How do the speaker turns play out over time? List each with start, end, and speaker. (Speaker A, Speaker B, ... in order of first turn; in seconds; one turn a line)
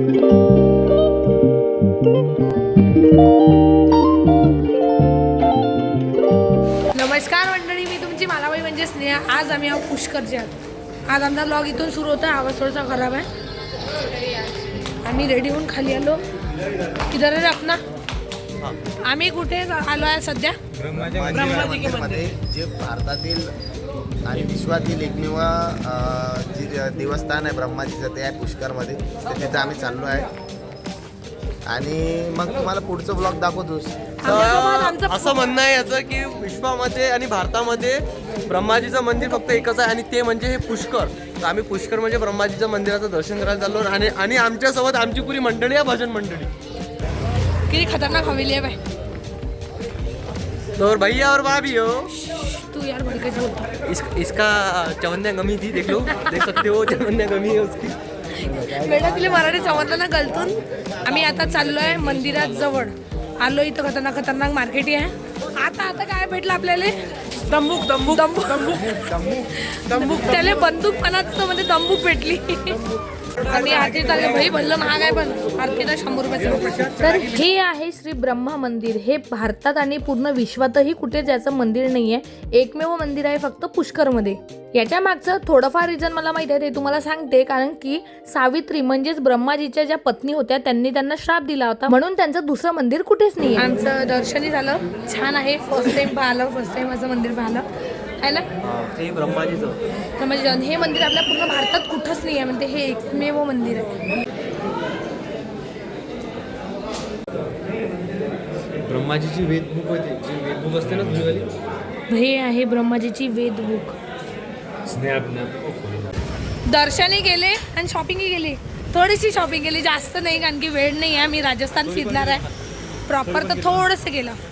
Speaker A: 6.9-10.5
Speaker A: 11.1-13.3
Speaker A: 15.0-16.2
Speaker A: 17.1-17.8
Speaker A: 19.0-20.6
Speaker B: 20.8-21.8
Speaker C: 20.9-23.5
Speaker A: 21.3-22.2
Speaker C: 24.2-30.3
Speaker C: 31.6-34.1
Speaker A: 34.2-35.5
Speaker D: 34.2-46.5
Speaker A: 47.7-48.8
Speaker D: 50.8-52.1
Speaker A: 52.1-53.7
Speaker D: 53.8-58.0
Speaker A: 58.4-67.0
Speaker D: 67.5-68.1
Speaker A: 67.9-72.8
Speaker A: 73.4-97.7
Speaker A: 98.2-98.5
Speaker D: 98.6-99.8
Speaker A: 100.2-103.9
Speaker B: 108.8-111.6
Speaker D: 111.0-111.3
Speaker A: 112.1-114.0
Speaker B: 114.8-116.1
Speaker A: 116.6-122.5
Speaker A: 123.1-124.4